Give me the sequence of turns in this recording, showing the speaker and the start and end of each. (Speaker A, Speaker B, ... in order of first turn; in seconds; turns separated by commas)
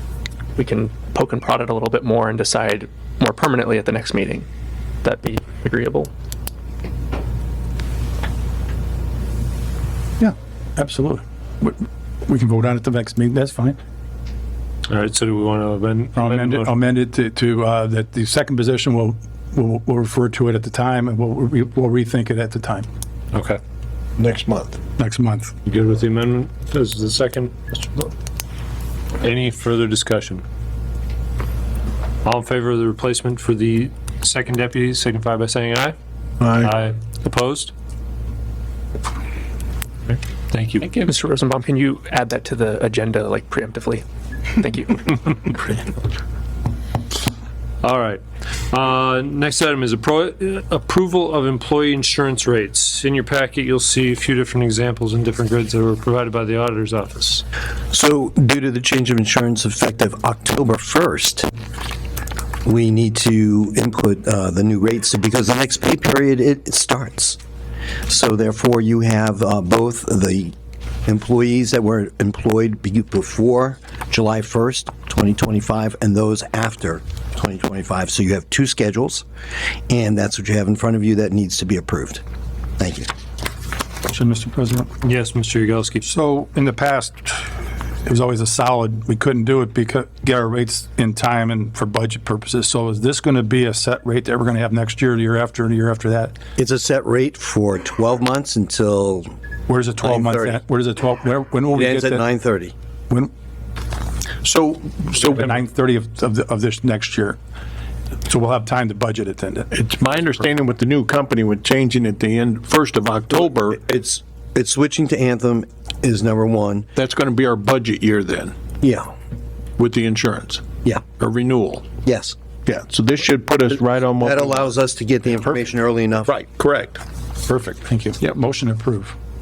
Speaker A: 0.6-4.5, Speaker A: 5.0-6.1, Speaker B: 10.2-13.8, Speaker C: 14.9-16.7, Speaker B: 16.1-22.9, Speaker C: 23.3-23.6, Speaker D: 24.2-24.8, Speaker B: 25.0-25.5, Speaker C: 25.7-28.1, Speaker C: 29.2-30.4, Speaker C: 32.2-36.0, Speaker D: 36.4-36.7, Speaker C: 36.5-37.7, Speaker C: 40.1-41.1, Speaker A: 41.0-45.5, Speaker C: 47.8-57.4, Speaker E: 57.9-61.5, Speaker E: 62.6-67.4, Speaker E: 68.1-70.5, Speaker E: 71.1-79.2, Speaker E: 79.9-82.2, Speaker E: 82.8-83.1, Speaker B: 84.1-84.9, Speaker C: 85.0-86.1, Speaker B: 86.1-87.5, Speaker B: 88.1-96.4, Speaker E: 96.5-99.3, Speaker B: 99.7-102.2, Speaker E: 100.0-100.6, Speaker E: 101.7-102.7, Speaker D: 104.4-105.4, Speaker B: 105.2-107.4, Speaker B: 108.3-109.7, Speaker D: 109.7-113.8, Speaker E: 113.3-116.9, Speaker D: 117.0-118.6, Speaker E: 118.8-119.1, Speaker D: 119.8-121.9, Speaker E: 122.0-122.4, Speaker D: 122.7-124.7, Speaker E: 124.2-126.3, Speaker D: 126.3-127.0, Speaker B: 127.5-129.2